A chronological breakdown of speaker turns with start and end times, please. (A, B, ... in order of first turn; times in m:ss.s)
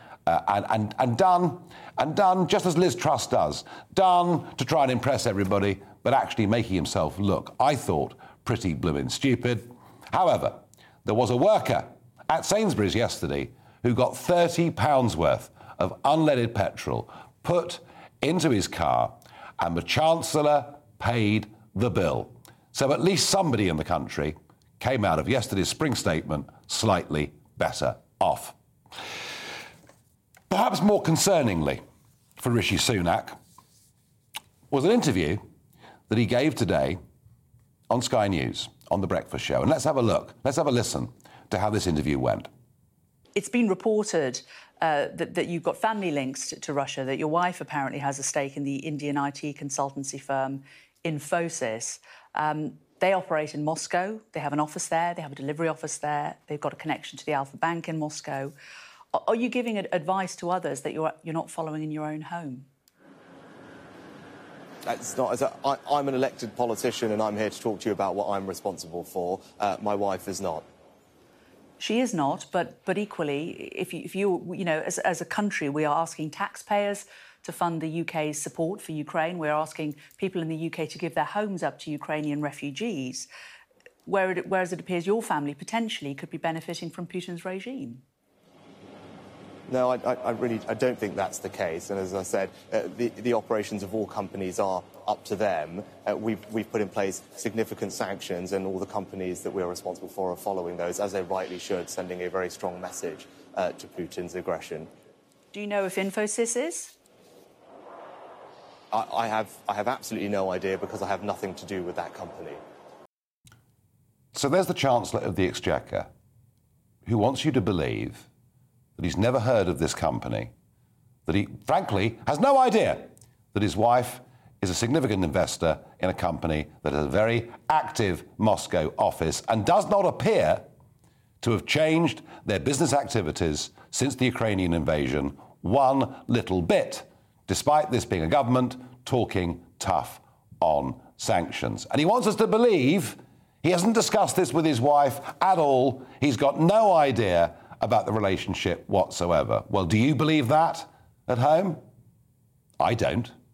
0:00.2-0:28.6 A
0:30.5-0:31.8 A
0:32.4-0:33.4 A
0:34.7-0:35.4 A
0:36.1-0:37.0 A
0:37.9-0:42.5 A
0:43.3-0:58.5 B
0:59.1-1:02.7 B
1:04.8-1:10.6 C
1:11.8-1:23.3 B
1:24.0-1:28.0 B
1:29.7-1:44.9 C
1:45.5-1:46.9 B
1:48.9-1:52.6 C
1:54.3-1:56.1 A
1:57.0-1:58.3 A
1:59.0-2:00.5 A
2:01.2-2:10.7 A
2:11.4-2:31.8 A
2:32.8-2:33.3 A